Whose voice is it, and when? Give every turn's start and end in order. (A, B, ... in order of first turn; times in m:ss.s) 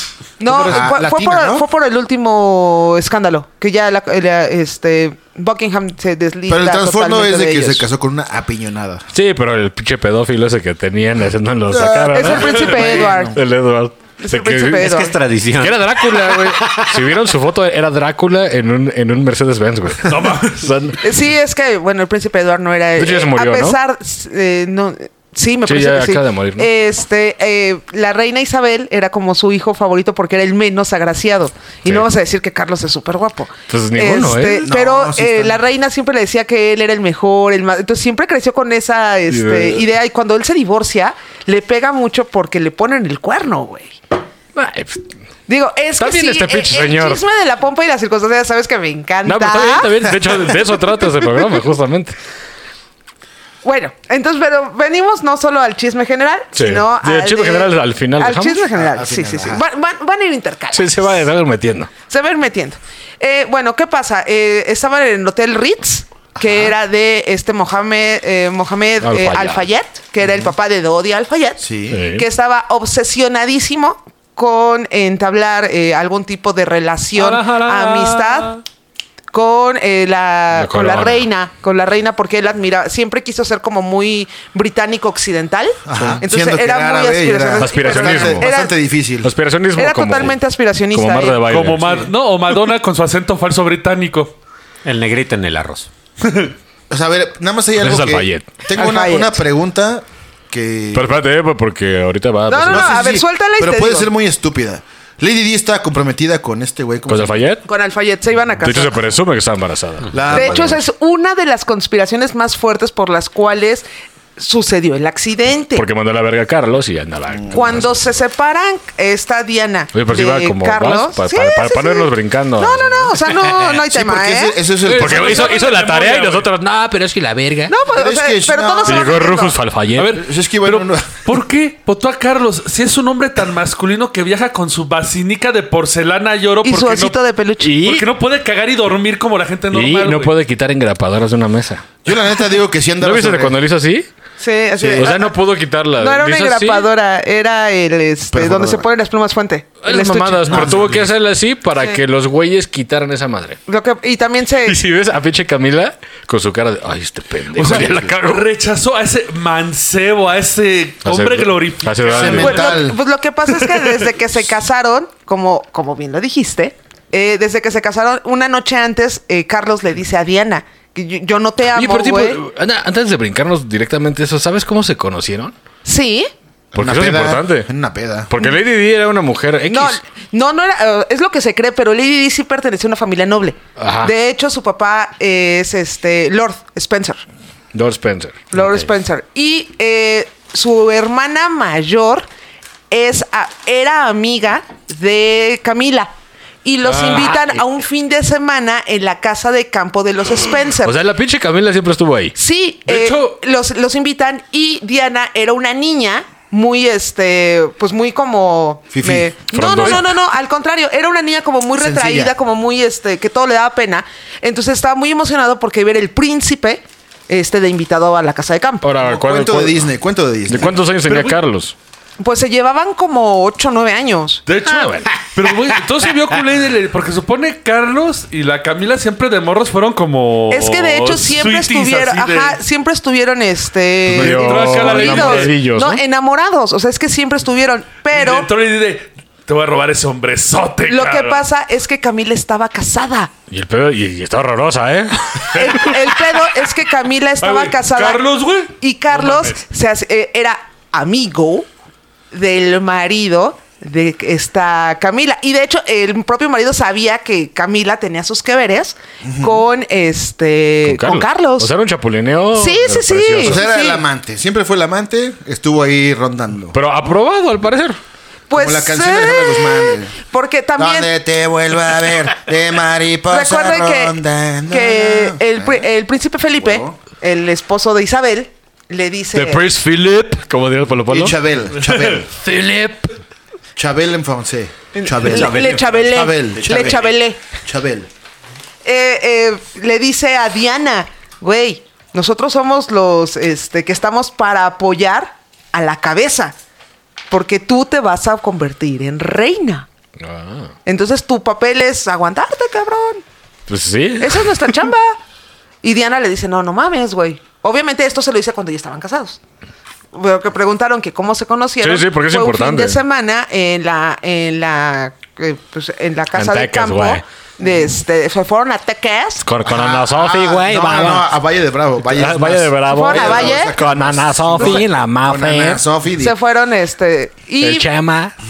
0:00.4-0:07.8 A
0:00.4-0:01.7 B
0:06.5-0:09.1 B
0:09.1-0:15.0 C
0:11.7-0:13.4 B
0:12.1-0:13.4 A
0:14.2-0:15.1 A
0:14.8-0:17.1 D
0:15.6-0:21.1 C
0:20.0-0:20.7 E
0:21.0-0:44.0 A
0:23.0-0:23.8 C
0:25.6-0:26.7 C
0:33.7-0:34.7 C
0:34.6-0:35.6 B
0:39.3-0:39.8 C
0:44.6-0:45.1 C
0:45.5-0:50.6 A
0:46.0-0:47.2 C
0:49.2-0:52.2 C
0:53.6-1:01.1 A
0:56.5-0:58.6 C
0:58.7-0:59.6 B
1:00.7-1:01.9 C
1:02.1-1:18.6 A
1:06.4-1:06.7 B
1:09.0-1:09.6 C
1:10.2-1:10.5 B
1:11.6-1:12.0 B
1:11.9-1:12.3 C
1:17.2-1:18.5 E
1:19.3-1:28.7 A
1:20.5-1:21.3 C
1:25.8-1:29.3 B
1:26.0-1:26.2 C
1:27.6-1:28.5 C
1:29.2-1:30.4 C
1:29.8-1:31.4 A
1:30.9-1:32.1 C
1:31.4-1:34.3 E
1:34.8-1:35.9 D
1:36.9-1:41.1 B
1:37.8-1:38.5 C
1:38.8-1:39.4 A
1:40.9-1:43.2 C
1:42.5-1:44.1 A
1:42.7-1:47.4 B
1:47.1-1:47.7 C
1:47.6-1:49.0 A
1:48.6-1:50.8 C
1:50.1-1:50.8 B
1:50.3-1:53.9 A
1:54.4-1:55.8 A
1:55.8-1:57.9 C
1:57.3-1:57.8 B
1:57.5-2:04.6 A
1:59.9-2:03.5 C
2:03.6-2:05.6 B
2:04.8-2:06.5 E
2:04.9-2:07.8 C
2:07.7-2:09.6 A
2:07.9-2:09.2 B
2:08.9-2:10.2 C
2:10.0-2:17.2 E
2:10.1-2:11.3 B
2:16.6-2:17.8 A
2:17.6-2:18.1 C
2:17.8-2:20.3 E
2:19.7-2:21.9 C
2:22.0-2:23.6 B
2:23.0-2:24.1 C
2:24.4-2:25.4 A
2:24.8-2:25.1 B
2:25.0-2:26.9 C
2:26.0-2:30.8 A
2:28.3-2:28.9 B
2:29.8-2:33.6 C
2:30.5-2:31.0 B
2:33.7-2:34.8 A
2:34.6-2:38.5 C
2:37.6-2:42.8 E
2:41.0-2:42.7 C
2:42.1-2:43.0 B
2:42.2-2:52.4 A
2:51.8-2:55.6 C
2:55.8-2:56.3 A
2:56.7-2:58.3 B
2:56.8-2:57.7 C
2:58.3-3:00.0 C
2:59.7-3:07.2 A
3:03.8-3:04.1 C
3:07.7-3:08.5 C
3:08.5-3:12.3 A
3:12.9-3:16.1 A
3:16.6-3:21.0 A
3:16.9-3:17.4 E
3:17.0-3:17.6 C
3:20.8-3:22.4 C
3:22.4-3:38.9 A
3:22.9-3:23.4 E
3:28.9-3:29.3 B
3:29.5-3:30.1 C
3:31.8-3:32.3 B
3:38.8-3:39.8 C
3:39.0-3:40.8 B
3:40.5-3:41.8 C
3:41.1-3:41.4 E
3:42.2-3:44.4 A
3:44.5-3:52.6 E
3:44.6-3:45.3 C
3:50.5-3:58.5 A
3:54.1-3:56.0 C
3:54.2-3:55.6 E
3:58.1-4:01.4 E
4:00.9-4:03.3 A
4:03.5-4:06.1 C
4:05.5-4:11.7 A
4:07.4-4:09.6 E
4:12.3-4:21.7 A
4:19.2-4:19.6 B
4:20.8-4:23.6 C
4:22.6-4:24.0 A
4:23.4-4:26.8 B
4:26.7-4:28.0 C
4:28.5-4:31.1 A
4:28.5-4:30.2 B
4:30.8-4:35.9 B
4:33.3-4:34.2 A
4:34.7-4:39.7 A
4:36.6-4:37.0 B
4:39.3-4:41.4 C
4:41.1-4:42.3 B
4:41.9-4:42.2 E
4:42.3-4:43.2 C
4:43.8-4:48.1 B
4:44.9-4:47.4 A
4:48.8-4:56.6 A
4:57.3-4:59.9 A
5:00.2-5:00.7 C
5:00.9-5:03.2 A
5:03.7-5:04.8 C
5:04.2-5:05.2 A
5:05.8-5:09.4 A
5:10.1-5:19.5 A
5:11.8-5:13.0 C
5:16.4-5:17.2 C
5:19.4-5:21.3 C
5:19.6-5:26.4 B
5:22.1-5:25.8 C
5:22.9-5:23.8 A
5:26.2-5:27.9 A
5:27.6-5:28.4 C